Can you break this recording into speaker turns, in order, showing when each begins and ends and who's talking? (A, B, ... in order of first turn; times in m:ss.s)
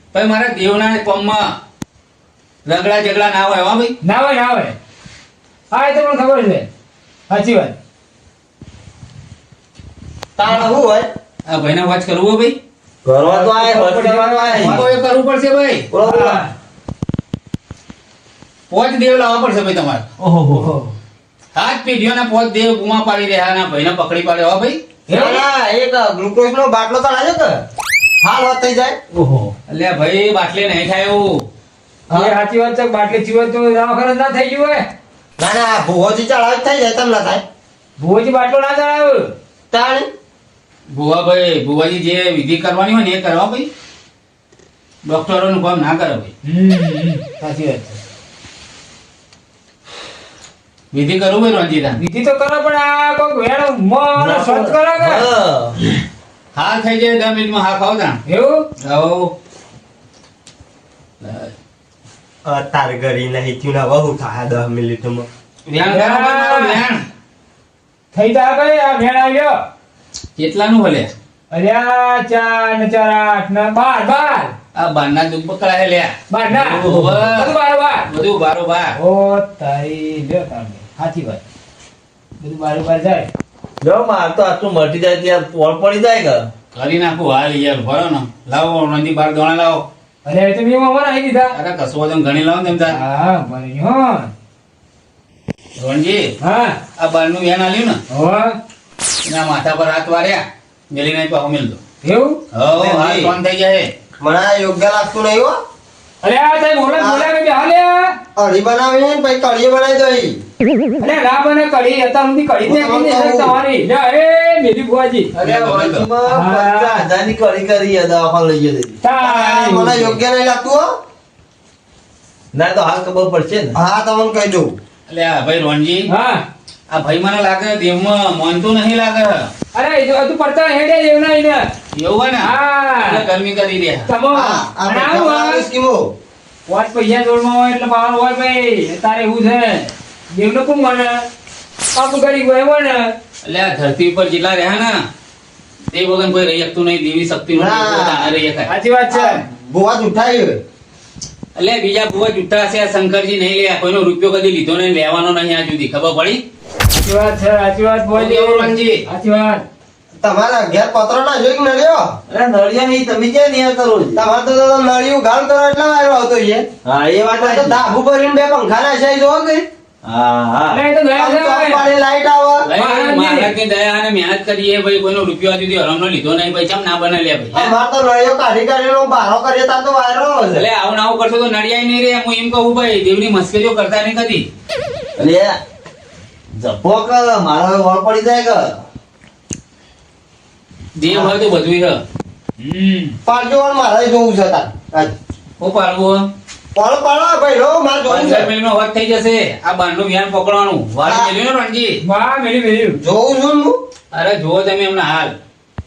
0:00.1-0:01.5 A
0:02.6-0:03.9 A
0:04.0-0:04.8 B
0:05.7-0:06.7 B
0:07.3-0:07.7 B
0:10.4-0:11.1 C
0:11.4-0:12.6 A
0:13.0-0:14.8 D
0:13.2-0:14.8 B
0:14.6-0:15.9 A
0:16.0-0:16.4 D
0:16.0-0:16.5 B
0:18.7-0:20.0 A
0:20.2-0:20.8 D
0:21.5-0:24.8 A
0:25.1-0:25.4 B
0:25.1-0:27.6 C
0:28.2-0:29.0 C
0:29.1-0:29.4 D
0:29.6-0:31.4 A
0:32.1-0:32.3 C
0:32.1-0:34.8 B
0:35.4-0:37.4 C
0:38.0-0:39.3 B
0:39.7-0:40.1 C
0:40.9-0:43.7 A
0:45.0-0:46.3 A
0:46.4-0:48.0 B
0:50.9-0:52.0 A
0:52.0-0:55.3 B
0:54.2-0:55.8 D
0:56.5-0:58.2 A
0:58.2-0:58.7 B
0:58.8-0:59.3 A
1:01.2-1:01.5 A
1:02.4-1:05.3 C
1:05.7-1:07.0 A
1:05.9-1:06.8 B
1:08.1-1:09.6 B
1:10.4-1:11.1 A
1:11.5-1:14.5 B
1:14.7-1:16.2 A
1:16.3-1:18.1 B
1:16.5-1:17.3 D
1:16.8-1:17.5 A
1:18.0-1:19.0 A
1:18.9-1:21.4 B
1:22.4-1:23.3 B
1:23.8-1:26.5 D
1:26.7-1:29.8 A
1:30.2-1:31.6 B
1:31.5-1:33.0 A
1:32.9-1:34.3 B
1:35.8-1:36.3 A
1:36.4-1:36.8 B
1:37.0-1:38.0 A
1:38.1-1:38.6 B
1:39.2-1:41.8 A
1:42.0-1:42.4 B
1:42.5-1:43.9 A
1:42.7-1:43.3 C
1:44.2-1:45.6 C
1:46.2-1:48.1 B
1:47.0-1:47.3 C
1:48.4-1:50.4 C
1:51.0-1:55.3 B
1:52.6-1:53.6 C
1:55.3-1:59.0 D
1:55.4-1:56.1 A
1:56.2-1:57.0 B
1:59.0-2:00.2 B
1:59.2-2:00.9 C
2:02.5-2:03.7 D
2:03.7-2:04.8 C
2:05.1-2:06.1 A
2:06.1-2:06.4 B
2:06.9-2:09.5 A
2:09.7-2:11.6 B
2:11.9-2:14.1 A
2:12.4-2:13.2 B
2:14.1-2:15.6 B
2:14.3-2:16.1 C
2:16.7-2:21.2 B
2:21.9-2:23.1 B
2:23.4-2:25.0 A
2:25.9-2:28.7 A
2:27.5-2:28.3 C
2:28.7-2:29.4 B
2:29.1-2:30.6 C
2:31.6-2:36.4 A
2:36.9-2:39.6 B
2:38.1-2:39.0 A
2:40.2-2:42.1 C
2:42.3-2:44.2 D
2:44.1-2:46.6 C
2:46.8-2:47.8 D
2:47.4-2:49.6 C
2:50.0-2:50.8 D
2:50.7-2:51.8 B
2:51.1-2:52.7 C
2:52.6-2:57.7 A
2:52.8-2:53.5 B
2:57.5-3:00.6 C
3:00.5-3:04.5 A
3:05.2-3:05.6 D
3:06.5-3:08.8 D
3:11.0-3:12.0 A
3:12.6-3:13.2 B
3:13.2-3:15.1 C
3:15.6-3:16.3 A
3:16.7-3:18.5 C
3:18.1-3:22.0 A
3:21.0-3:21.3 C
3:22.0-3:23.0 B
3:23.0-3:23.8 C
3:24.1-3:25.3 A